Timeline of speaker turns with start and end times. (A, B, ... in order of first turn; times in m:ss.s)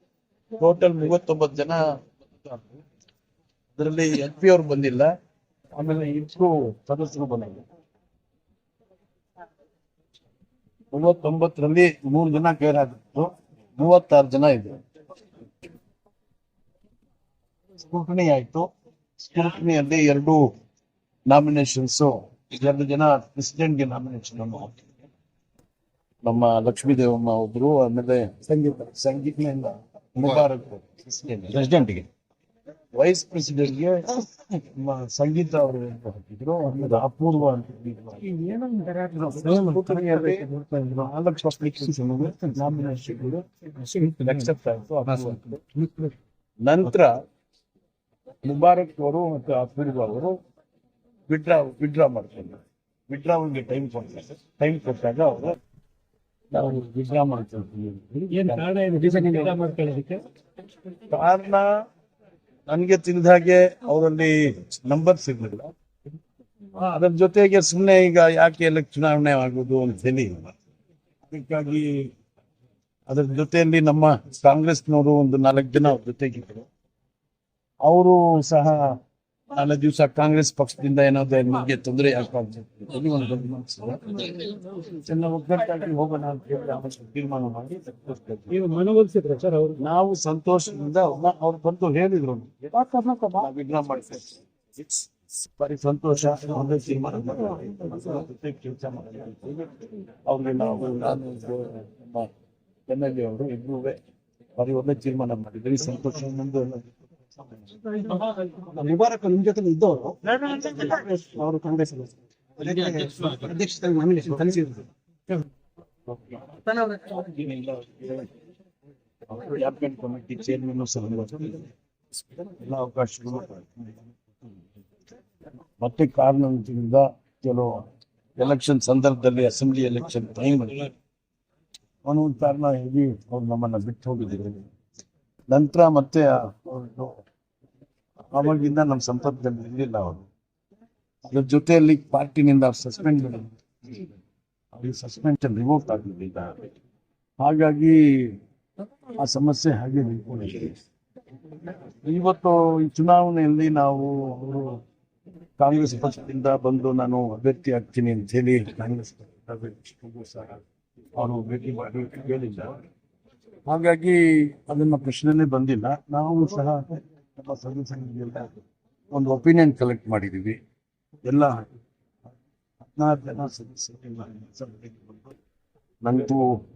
0:00.6-0:02.8 A
0:03.8-0:05.2 A
0:05.8-0:07.7 A
0:10.9-0:14.8 A
0:17.8-0:20.5 A
0:21.3-0:24.8 A
0:26.2-0:32.1 A
0:32.9-0:38.5 A
0:38.3-0:41.0 B
0:39.1-0:43.4 A
0:43.8-0:44.3 B
0:44.0-0:45.6 A
0:45.2-0:46.1 B
0:46.6-0:47.2 A
0:48.4-0:50.4 A
0:51.3-0:55.6 A
0:56.5-0:58.7 A
0:58.3-1:00.2 B
1:01.1-1:01.7 A
1:02.7-1:05.7 A
1:06.7-1:10.6 A
1:11.3-1:12.1 A
1:13.1-1:16.7 A
1:17.8-1:19.0 A
1:19.5-1:28.6 A
1:28.5-1:29.8 B
1:29.8-1:42.3 A
1:32.8-1:33.3 B
1:42.9-1:44.0 A
1:44.6-1:46.9 A
1:47.9-1:54.9 C
1:56.1-1:58.3 A
1:59.3-2:01.7 A
2:02.3-2:04.1 A
2:05.8-2:07.9 A
2:08.4-2:10.9 A
2:12.0-2:14.7 A
2:15.5-2:17.2 A
2:18.3-2:20.3 A
2:21.3-2:24.1 A
2:24.7-2:26.7 A
2:27.4-2:28.4 A
2:29.1-2:30.8 A
2:32.0-2:34.8 A
2:35.6-2:40.6 A
2:41.2-2:42.8 A
2:43.7-2:48.6 A
2:49.1-2:50.6 A
2:51.2-2:51.7 A
2:52.9-2:55.4 A
2:56.0-2:56.6 A